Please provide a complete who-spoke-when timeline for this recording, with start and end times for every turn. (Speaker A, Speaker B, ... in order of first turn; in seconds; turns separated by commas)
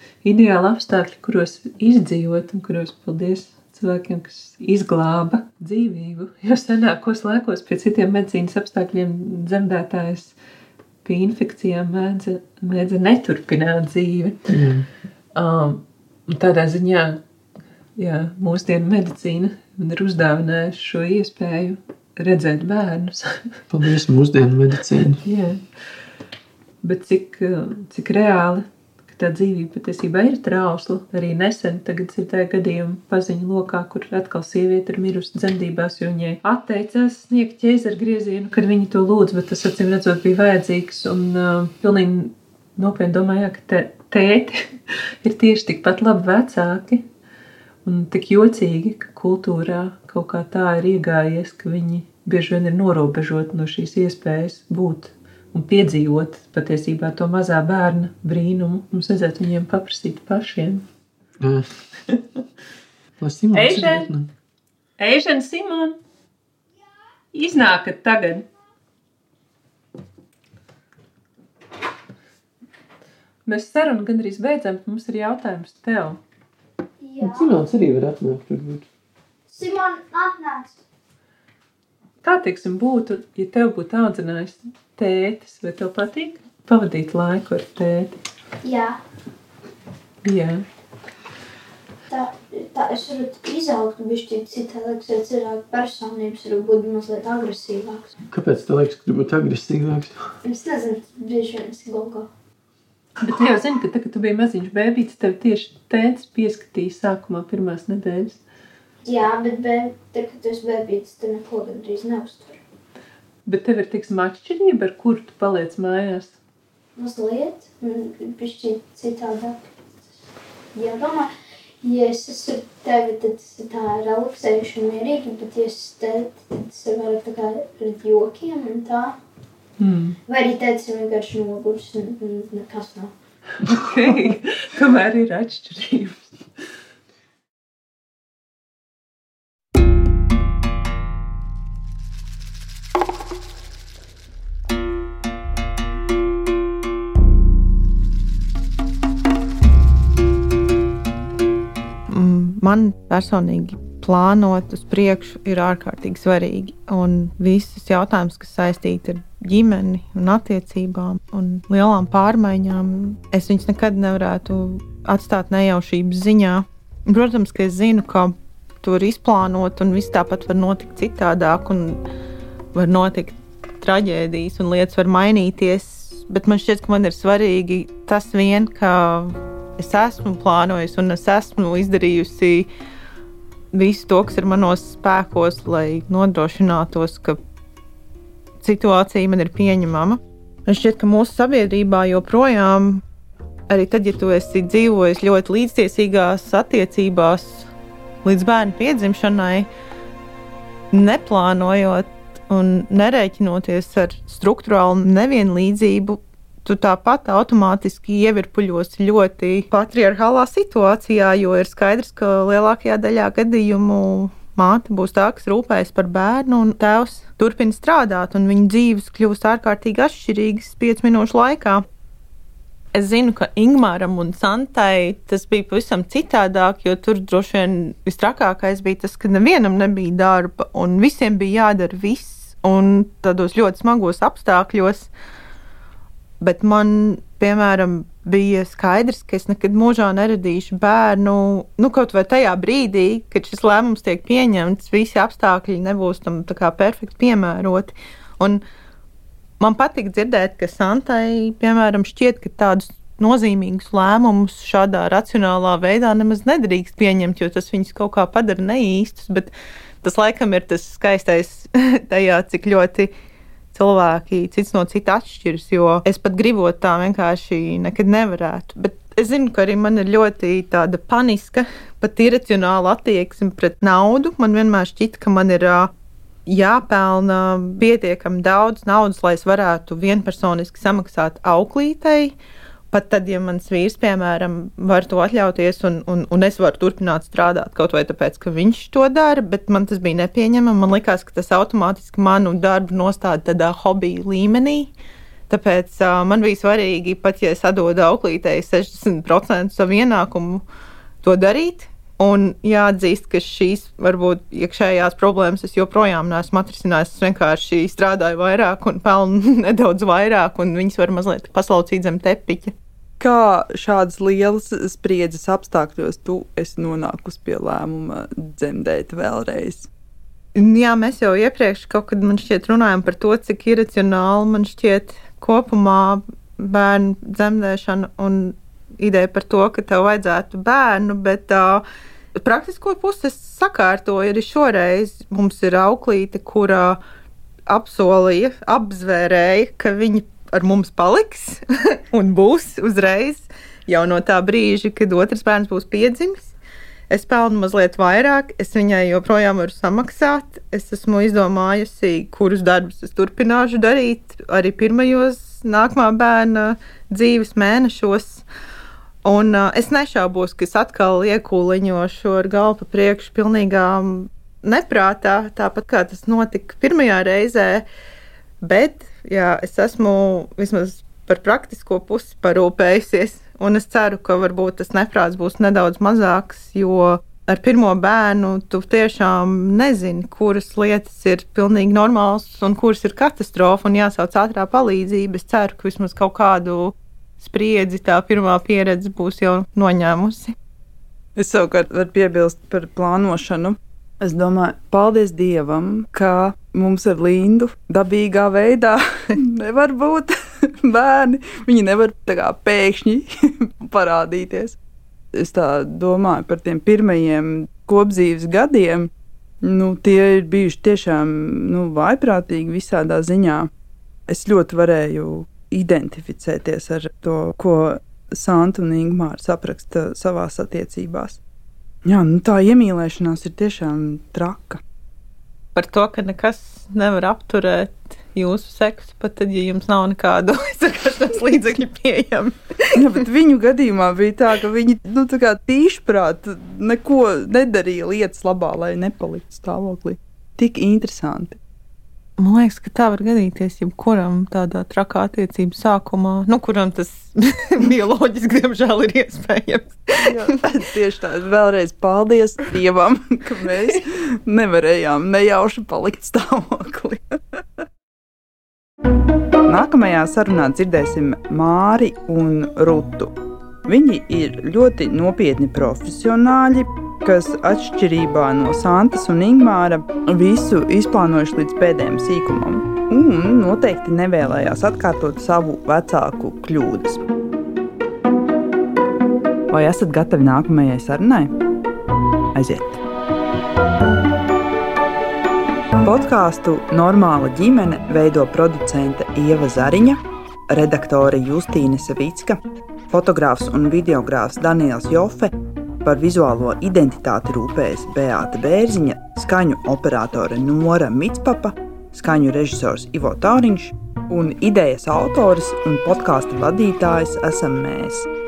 Speaker A: 0.2-10.3, Speaker A: 11.0-14.5, Speaker B: 14.5-14.9, Speaker A: 15.3-17.2, Speaker A: 18.0-23.5, Speaker B: 23.7-25.2, Speaker A: 25.2-25.6, Speaker A: 26.8-47.0, Speaker A: 47.8-60.8, Speaker B: 61.4-61.7, Speaker B: 63.2-64.3, Speaker A: 63.5-64.1, Speaker A: 65.0-66.0, Speaker A: 67.3-68.5, Speaker A: 73.5-76.2, Speaker C: 77.0-77.4, Speaker B: 77.2-78.8, Speaker C: 79.5-80.8, Speaker A: 82.2-88.2, Speaker C: 88.6-89.0, Speaker A: 90.2-90.6, Speaker C: 92.1-98.1, Speaker B: 98.3-100.3, Speaker C: 100.4-102.3, Speaker A: 103.2-108.4, Speaker C: 109.0-112.6, Speaker A: 113.5-116.4, Speaker C: 117.0-120.1, Speaker C: 120.7-121.3, Speaker C: 121.8-129.2, Speaker A: 129.8-130.2, Speaker C: 130.3-133.1, Speaker A: 133.6-136.3, Speaker D: 152.1-172.0, Speaker D: 172.7-182.7, Speaker D: 183.7-187.4, Speaker D: 188.6-193.0, Speaker D: 193.7-197.7, Speaker D: 198.2-199.7, Speaker D: 200.9-221.8, Speaker D: 222.9-235.1, Speaker D: 236.4-248.6, Speaker D: 249.6-263.1, Speaker D: 263.7-275.9, Speaker D: 276.4-282.3, Speaker D: 282.9-294.9, Speaker D: 295.5-300.6, Speaker D: 301.2-312.7, Speaker E: 313.2-319.9, Speaker D: 320.5-331.8, Speaker D: 332.4-337.0, Speaker D: 337.7-346.5, Speaker D: 347.1-358.4, Speaker D: 359.2-367.9, Speaker D: 368.6-390.5, Speaker E: 391.4-404.8, Speaker E: 405.3-409.1, Speaker E: 409.6-413.7, Speaker E: 414.3-421.4, Speaker E: 422.0-424.8, Speaker D: 425.7-433.1, Speaker E: 432.9-441.6, Speaker D: 442.4-450.3, Speaker E: 450.2-457.4, Speaker E: 459.6-463.3, Speaker E: 463.9-477.2, Speaker E: 479.7-481.5, Speaker E: 482.5-483.0, Speaker E: 486.0-492.6, Speaker E: 493.1-508.3